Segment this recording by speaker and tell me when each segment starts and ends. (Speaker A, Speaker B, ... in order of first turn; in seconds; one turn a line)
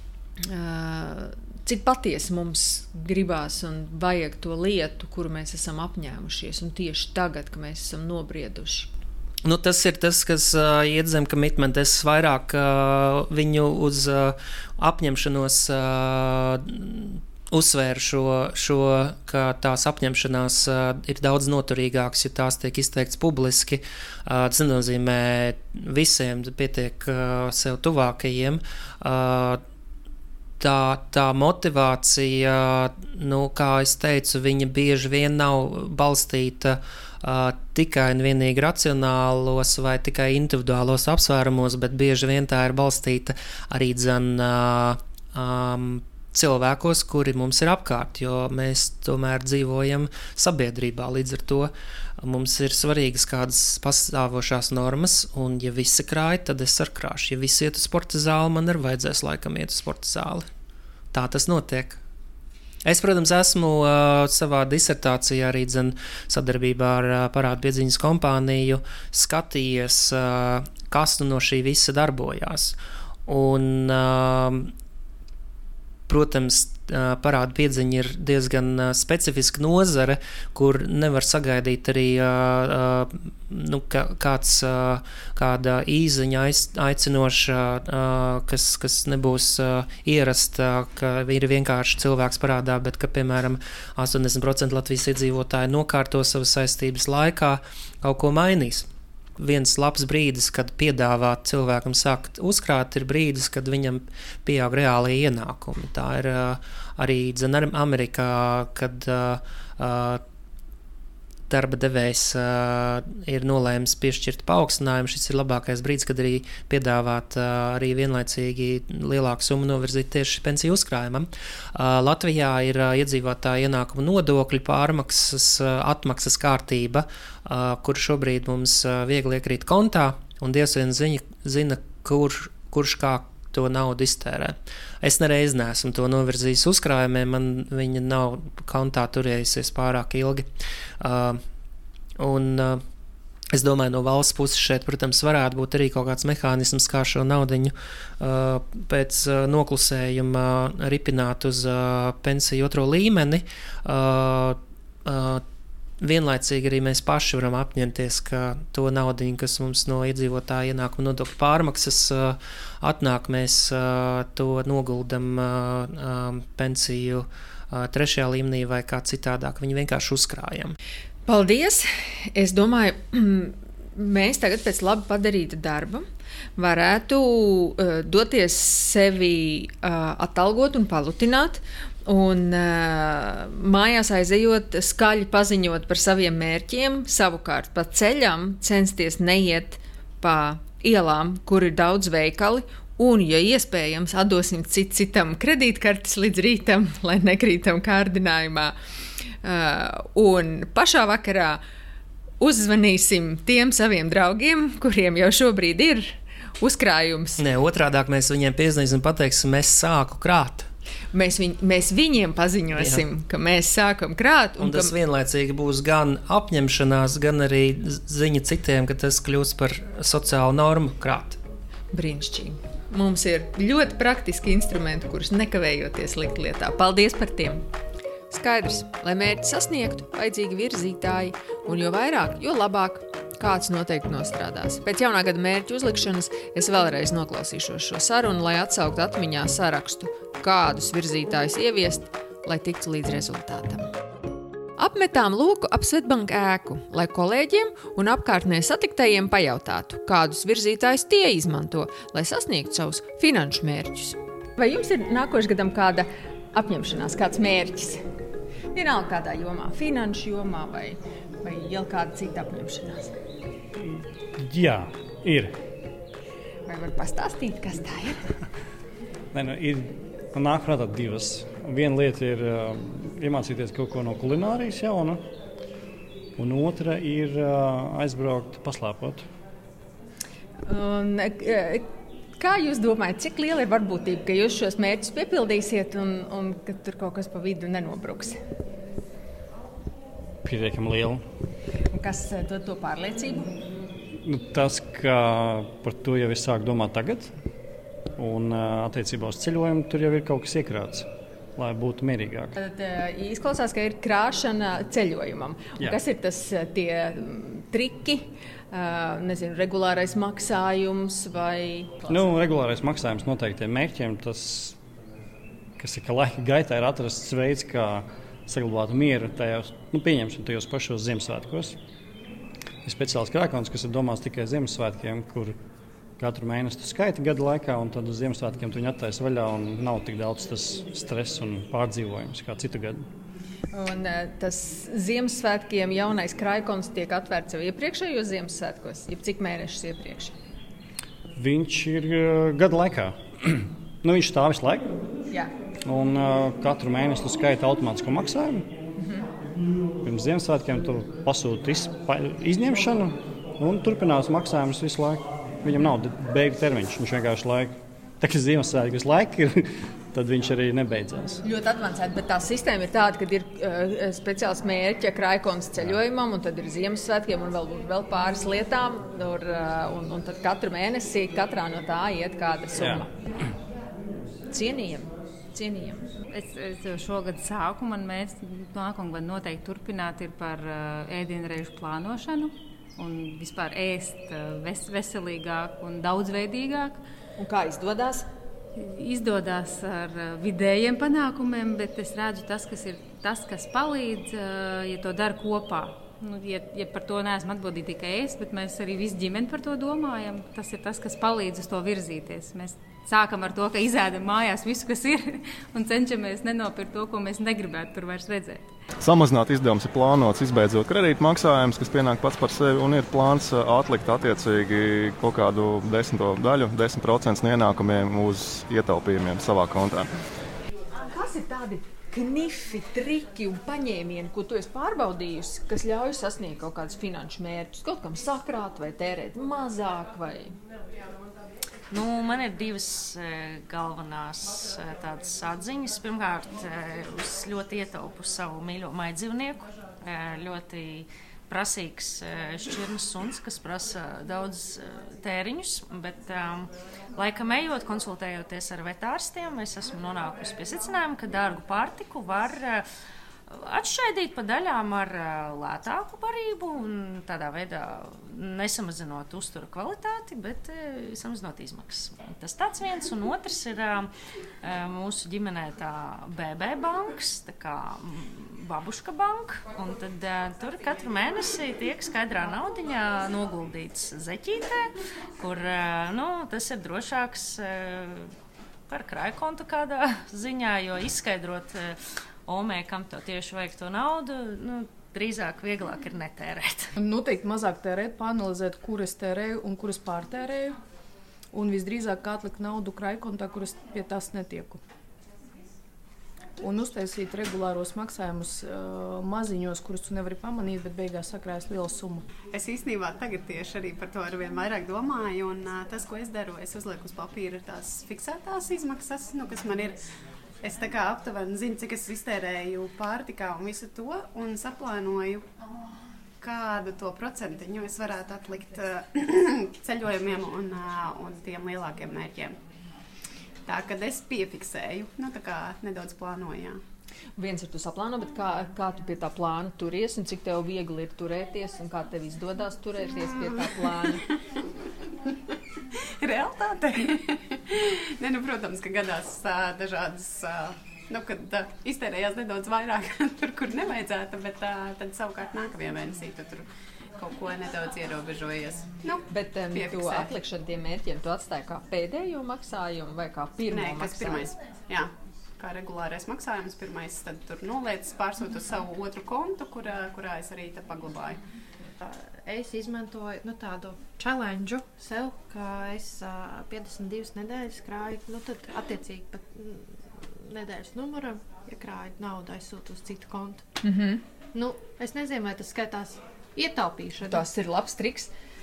Speaker A: 0.4-8.9
Speaker B: 9.4-29.6
Speaker B: 30.6-60.5
Speaker B: 61.1-62.0
Speaker B: 62.8-74.7
Speaker B: 76.1-98.9
Speaker B: 99.4-110.2
Speaker B: 111.5-140.4
Speaker B: 141.0-141.4
Speaker B: 142.2-142.8
Speaker B: 143.5-155.4
Speaker B: 156.0-170.8
Speaker A: 171.3-176.1
Speaker A: 176.6-198.7
Speaker A: 199.4-201.6
Speaker A: 202.4-207.4
Speaker B: 207.4-210.7
Speaker A: 211.1-214.9
Speaker B: 212.8-213.0
Speaker B: 214.6-221.4
Speaker A: 221.9-227.6
Speaker A: 228.3-243.9
Speaker A: 244.8-258.0
Speaker A: 258.7-263.1
Speaker C: 263.8-265.5
Speaker A: 266.7-268.2
Speaker C: 269.3-275.2
Speaker C: 276.4-279.2
Speaker A: 280.6-281.9
Speaker A: 282.4-288.4
Speaker C: 290.4-291.2
Speaker A: 291.9-293.5
Speaker C: 294.2-297.3
Speaker C: 298.2-302.5
Speaker A: 302.6-312.3
Speaker C: 312.1-314.8
Speaker C: 315.8-321.8
Speaker C: 322.8-325.6
Speaker C: 326.2-333.1
Speaker A: 333.7-340.3
Speaker C: 341.4-344.9
Speaker C: 345.9-348.6
Speaker C: 350.0-361.4
Speaker A: 361.4-373.1
Speaker C: 372.8-373.0
Speaker A: 374.5-376.1
Speaker D: 376.3-387.0
Speaker A: 387.4-388.2
Speaker D: 388.8-408.7
Speaker E: 409.0-420.1
Speaker A: 421.1-430.5
Speaker F: 431.9-452.8
Speaker F: 453.5-464.1
Speaker F: 464.6-478.3
Speaker F: 478.9-486.9
Speaker G: 486.9-490.8
Speaker G: 491.5-494.8
Speaker G: 496.6-502.3
Speaker H: 502.5-510.0
Speaker H: 510.6-515.4
Speaker H: 516.4-522.5
Speaker H: 523.7-526.8
Speaker A: 527.4-534.2
Speaker H: 536.2-550.3
Speaker A: 549.3-554.5
Speaker H: 553.7-561.4
Speaker I: 562.0-573.6
Speaker A: 573.8-574.2
Speaker I: 574.5-577.4
Speaker A: 577.2-578.3